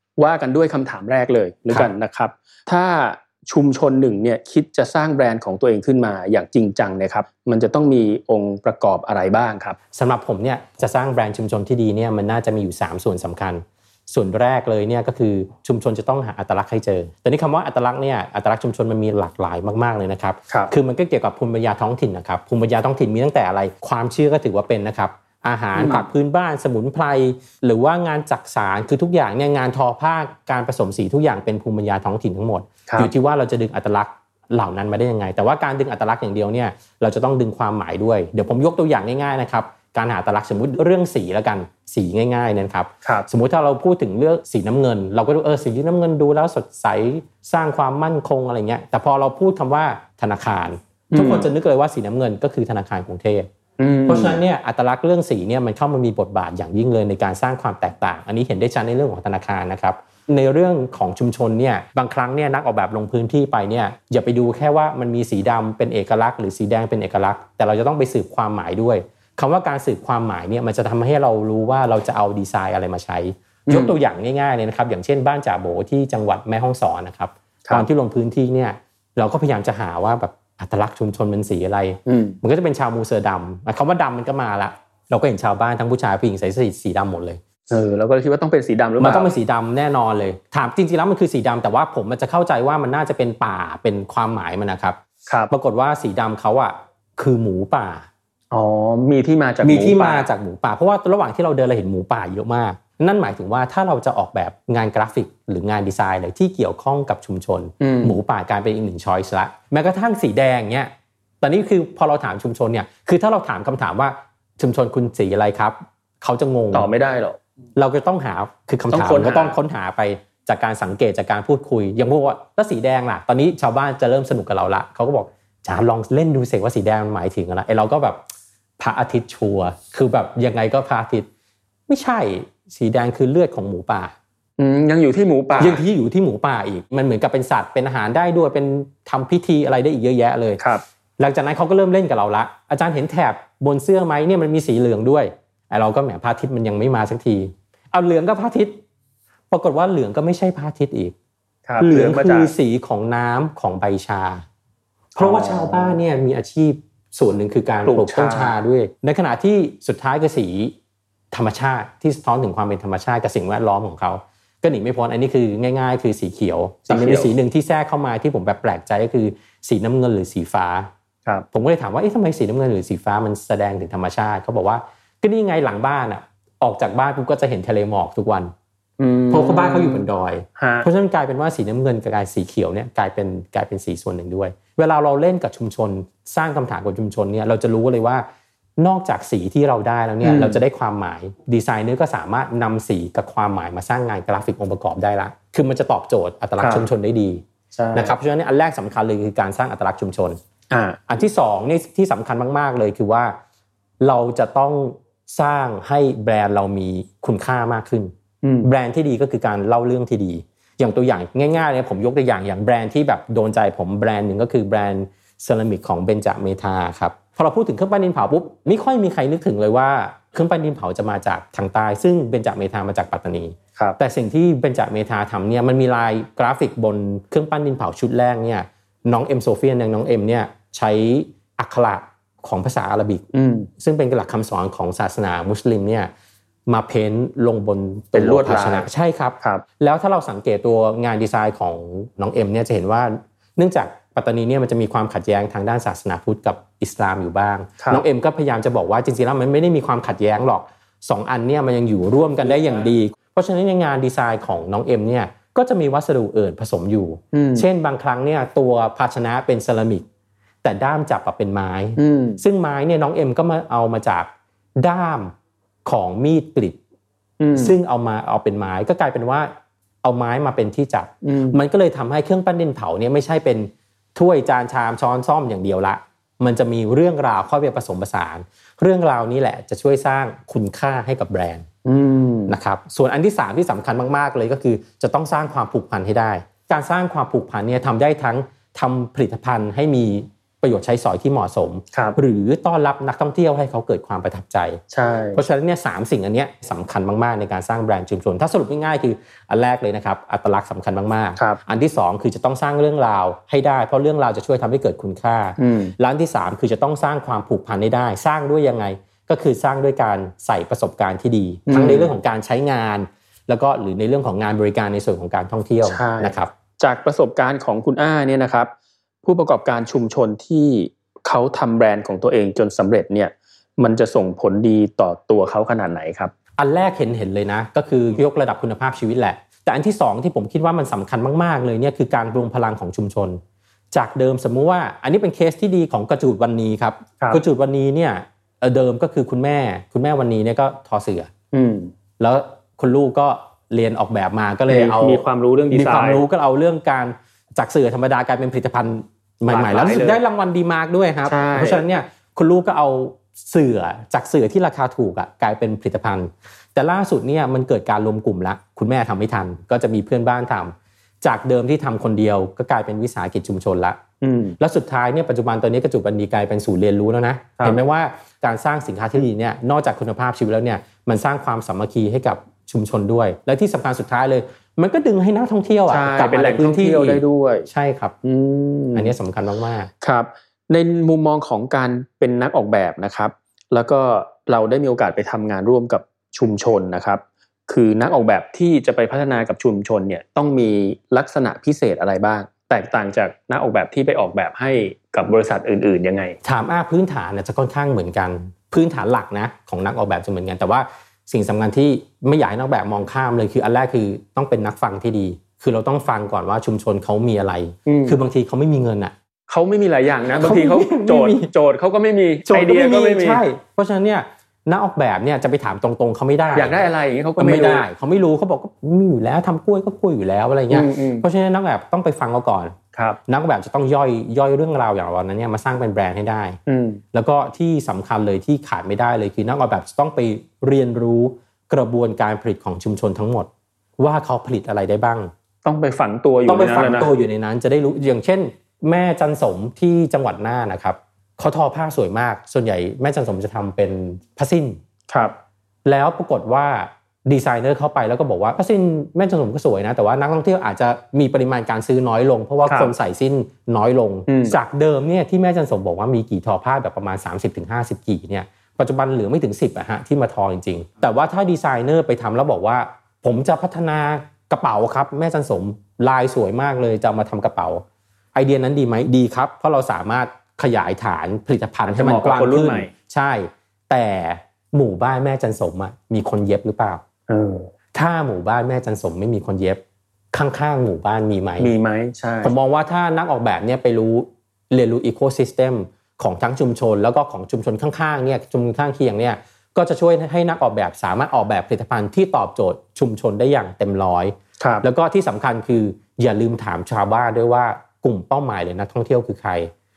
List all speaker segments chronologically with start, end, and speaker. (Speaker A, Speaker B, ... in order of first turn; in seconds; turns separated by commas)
Speaker A: 0.2-9.8, Speaker B: 9.9-53.5, Speaker A: 25.8-26.1, Speaker A: 43.0-43.3, Speaker A: 51.1-51.5, Speaker A: 53.8-54.4, Speaker B: 54.1-87.4, Speaker A: 73.7-74.0, Speaker A: 82.1-82.4, Speaker A: 87.7-89.3, Speaker B: 89.0-95.0, Speaker A: 95.2-95.5, Speaker B: 95.5-98.1, Speaker A: 98.5-100.3, Speaker B: 99.6-110.9, Speaker A: 107.8-108.2, Speaker B: 111.4-116.9, Speaker A: 116.7-117.4, Speaker B: 117.8-128.2, Speaker A: 118.9-119.6, Speaker B: 128.8-131.3, Speaker B: 131.9-134.1, Speaker A: 134.6-135.8, Speaker B: 135.6-140.6, Speaker A: 140.6-140.8, Speaker B: 141.2-148.8, Speaker B: 149.5-151.1, Speaker A: 151.7-152.5, Speaker B: 151.8-154.4, Speaker A: 155.2-156.0, Speaker B: 155.2-160.7, Speaker A: 157.8-158.6, Speaker B: 161.3-170.9, Speaker A: 166.9-167.3, Speaker B: 171.5-178.5, Speaker A: 179.0-180.9, Speaker B: 179.3-188.2, Speaker B: 188.8-200.4, Speaker A: 190.2-190.6, Speaker A: 196.6-196.9, Speaker A: 197.7-198.2, Speaker A: 200.7-201.0, Speaker B: 201.1-203.3, Speaker B: 204.0-208.1, Speaker A: 208.4-208.7, Speaker B: 208.6-233.2, Speaker A: 233.3-233.7, Speaker B: 233.8-236.1, Speaker B: 236.7-260.1, Speaker A: 238.1-238.9, Speaker A: 239.4-239.6, Speaker A: 247.8-248.0, Speaker A: 257.3-257.7, Speaker B: 260.6-265.3, Speaker A: 262.0-262.4, Speaker B: 265.8-266.8, Speaker A: 267.4-267.8, Speaker B: 267.5-269.5, Speaker B: 270.0-281.6, Speaker A: 271.2-271.6, Speaker A: 281.8-282.6, Speaker B: 282.5-294.8, Speaker A: 291.9-292.2, Speaker A: 294.9-295.4, Speaker B: 295.3-316.5, Speaker A: 305.6-305.9, Speaker A: 311.7-312.1, Speaker A: 315.8-318.7, Speaker A: 319.2-326.3, Speaker B: 326.6-333.4, Speaker B: 333.9-341.3, Speaker A: 341.5-341.9, Speaker B: 342.2-364.0, Speaker A: 344.7-346.2, Speaker A: 349.4-350.2, Speaker A: 351.2-351.9, Speaker A: 364.2-364.6, Speaker B: 364.6-378.1, Speaker A: 375.9-377.7, Speaker A: 378.2-379.1, Speaker B: 378.9-379.9, Speaker A: 380.0-396.4, Speaker B: 396.4-409.1, Speaker A: 407.9-408.2, Speaker A: 409.5-413.4, Speaker B: 410.3-411.5, Speaker B: 412.4-416.8, Speaker A: 416.5-417.9, Speaker B: 417.4-422.7, Speaker A: 420.7-421.3, Speaker A: 422.9-423.2, Speaker B: 423.3-426.6, Speaker A: 426.7-427.0, Speaker B: 427.1-435.3, Speaker A: 435.6-437.1, Speaker B: 436.5-444.8, Speaker A: 445.1-445.4, Speaker B: 445.8-467.8, Speaker A: 452.7-452.9, Speaker A: 454.3-454.6, Speaker B: 468.3-477.0, Speaker A: 471.9-472.9, Speaker A: 477.3-477.7, Speaker B: 477.9-479.8, Speaker B: 480.3-481.7, Speaker A: 481.6-482.6, Speaker B: 482.4-499.7, Speaker A: 494.6-494.9